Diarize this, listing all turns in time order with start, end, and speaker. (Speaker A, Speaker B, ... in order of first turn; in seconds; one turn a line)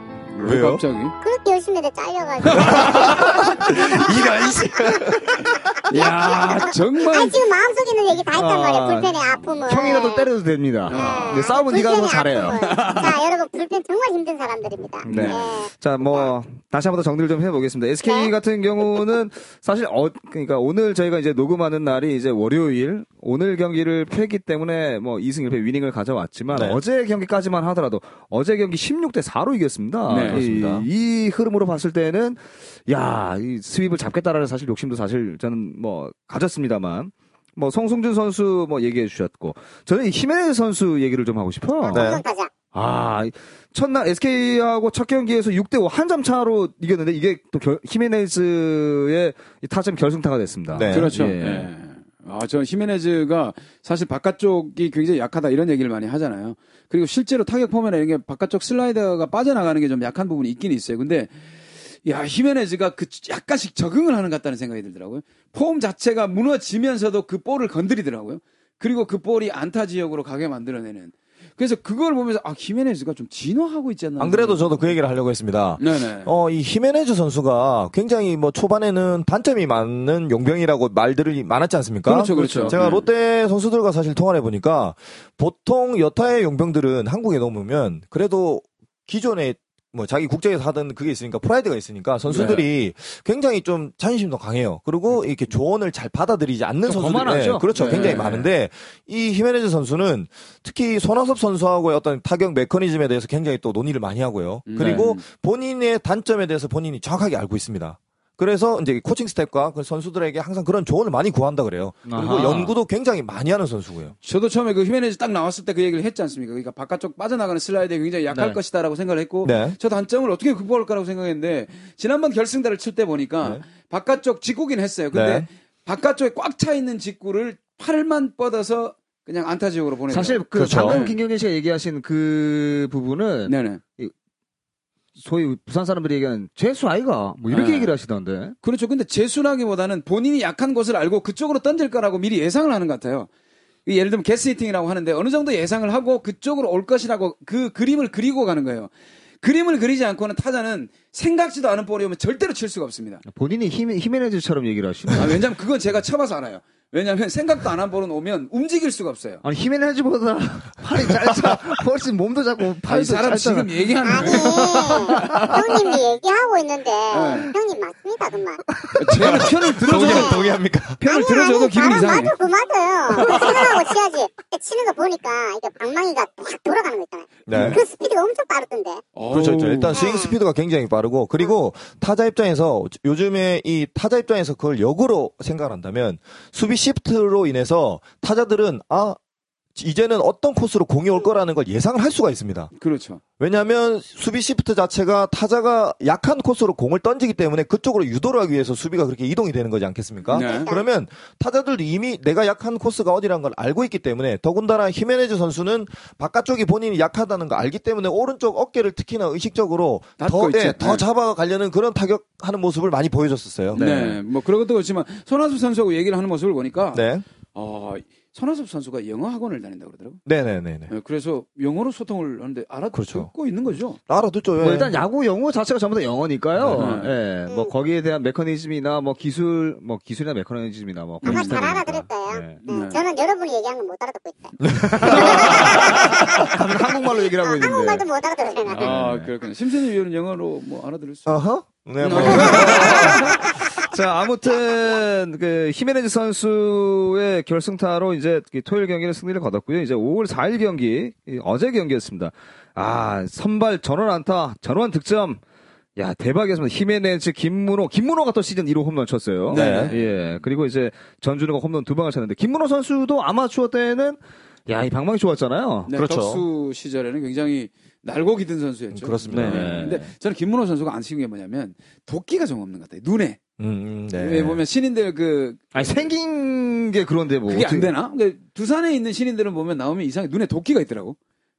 Speaker A: 0.3-1.1
Speaker B: 0.4-0.8
Speaker C: 1.2-10.3
Speaker A: 2.5-5.1
Speaker B: 4.8-5.3
Speaker A: 5.8-7.5
Speaker D: 8.3-12.6
Speaker A: 10.9-11.5
Speaker C: 10.9-16.3
Speaker A: 12.5-13.2
Speaker D: 15.0-42.2
Speaker A: 15.1-15.4
Speaker C: 18.0-18.3
Speaker B: 26.5-26.8
Speaker A: 30.1-30.4
Speaker B: 30.3-30.9
Speaker C: 41.8-42.5
Speaker B: 41.9-42.2
Speaker D: 42.7-51.7
Speaker B: 50.7-51.2
Speaker A: 50.9-61.4
Speaker A: 61.9-74.9
Speaker B: 74.2-114.1
Speaker A: 75.8-76.3
Speaker A: 82.0-83.0
Speaker D: 82.3-82.8
Speaker D: 92.3-92.6
Speaker D: 96.8-98.5
Speaker A: 97.7-98.3
Speaker A: 104.7-105.2
Speaker D: 104.8-105.0
Speaker D: 112.0-112.7
Speaker A: 114.2-131.2
Speaker D: 118.3-118.6
Speaker B: 119.4-119.8
Speaker B: 125.1-125.5
Speaker D: 130.1-134.1
Speaker B: 130.5-131.0
Speaker A: 133.4-133.8
Speaker D: 135.2-138.6
Speaker A: 137.5-137.9
Speaker A: 138.6-143.3
Speaker A: 143.8-153.2
Speaker D: 153.2-155.4
Speaker A: 155.1-159.4
Speaker D: 159.4-165.8
Speaker B: 161.2-161.5
Speaker A: 162.9-165.5
Speaker C: 164.0-168.6
Speaker A: 167.1-167.5
Speaker A: 168.9-170.3
Speaker B: 169.1-171.0
Speaker D: 169.1-170.3
Speaker C: 169.9-170.5
Speaker A: 171.0-172.3
Speaker C: 171.0-179.0
Speaker B: 177.5-177.8
Speaker A: 179.1-180.0
Speaker B: 179.3-189.2
Speaker C: 179.9-180.3
Speaker B: 189.8-192.7
Speaker A: 192.8-193.2
Speaker B: 193.4-214.1
Speaker C: 200.3-200.8
Speaker A: 200.3-200.7
Speaker A: 210.2-211.0
Speaker D: 213.7-214.1
Speaker A: 213.7-220.2
Speaker B: 216.9-217.2
Speaker B: 220.2-220.9
Speaker A: 220.9-224.0
Speaker B: 222.9-223.3
Speaker B: 224.1-224.9
Speaker D: 224.6-232.6
Speaker B: 226.6-226.9
Speaker A: 226.7-227.1
Speaker A: 231.2-231.7
Speaker C: 231.2-238.9
Speaker A: 232.6-233.0
Speaker B: 234.6-235.6
Speaker D: 234.9-238.0
Speaker A: 235.1-235.6
Speaker D: 238.7-239.3
Speaker A: 238.7-241.3
Speaker B: 241.2-243.2
Speaker A: 242.0-243.4
Speaker D: 242.1-255.4
Speaker C: 242.5-243.2
Speaker D: 256.0-265.9
Speaker A: 259.5-259.9
Speaker B: 259.5-259.9
Speaker A: 265.9-273.4
Speaker B: 265.9-266.4
Speaker B: 268.9-269.8
Speaker D: 269.3-270.1
Speaker B: 273.6-274.6
Speaker A: 274.1-276.0
Speaker D: 275.7-277.9
Speaker A: 277.5-281.2